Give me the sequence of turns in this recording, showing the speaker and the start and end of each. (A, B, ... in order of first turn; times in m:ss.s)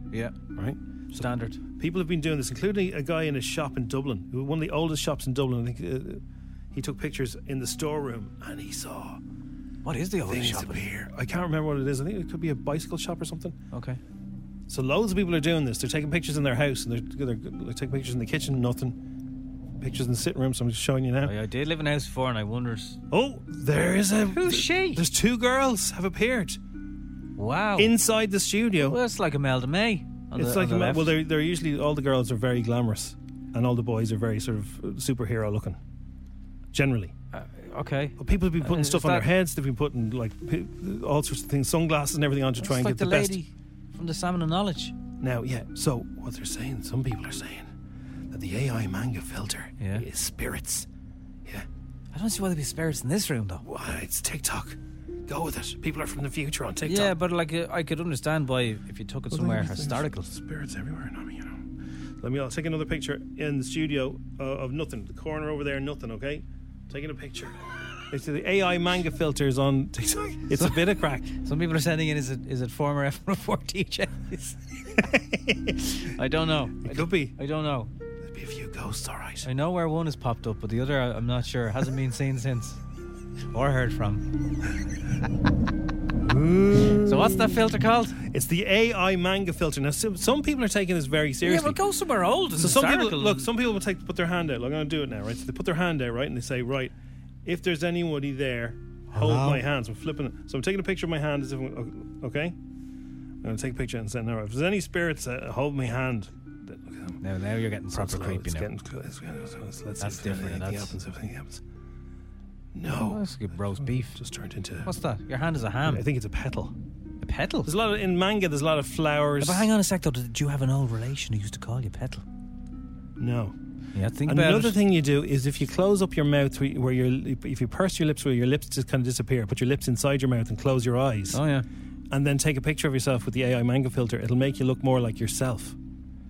0:00.5-0:06.2 A
0:01.1-0:01.6 B
0:06.7-0:09.2 A
0:09.8-0:10.9 B
0:10.3-0:13.6 A
0:13.7-0:14.0 B
0:14.7-0:19.0 A
0:19.8-0:21.3 A
0:21.2-0:23.0 B
0:23.1-0:26.6 A
0:24.3-0:25.0 B
0:27.4-0:27.9 B
0:27.8-0:29.0 A
0:28.8-0:31.1 B
0:30.4-0:35.8 A
0:36.7-0:37.1 A
0:37.3-0:39.3 B
0:38.2-0:43.4 A
0:42.6-0:44.9 B
0:45.2-0:47.7 A
0:48.3-0:50.9 A
0:49.8-0:50.0 B
0:52.1-0:53.6 B
0:53.6-0:57.1 A
0:56.8-1:00.3 B
0:59.3-1:01.7 A
1:02.2-1:07.6 A
1:08.1-1:11.2 A
1:10.5-1:14.6 B
1:15.0-1:15.9 A
1:16.0-1:17.9 B
1:16.8-1:17.4 A
1:18.2-1:19.5 A
1:19.4-1:22.8 B
1:23.5-1:24.2 B
1:26.2-1:27.6 A
1:27.0-1:28.2 B
1:28.2-1:31.8 A
1:31.4-1:33.5 B
1:32.6-1:36.9 A
1:37.4-1:42.5 A
1:39.1-1:39.6 B
1:43.4-1:47.2 A
1:47.2-1:48.7 B
1:47.9-1:51.6 A
1:50.0-1:50.9 B
1:52.7-1:54.9 A
1:53.0-1:54.2 B
1:54.8-1:56.0 B
1:55.8-1:56.7 A
1:57.2-1:57.7 B
1:57.6-1:59.7 A
1:59.4-2:02.2 B
2:03.2-2:03.6 A
2:03.9-2:04.8 B
2:04.2-2:11.4 A
2:11.3-2:11.6 B
2:12.1-2:15.8 A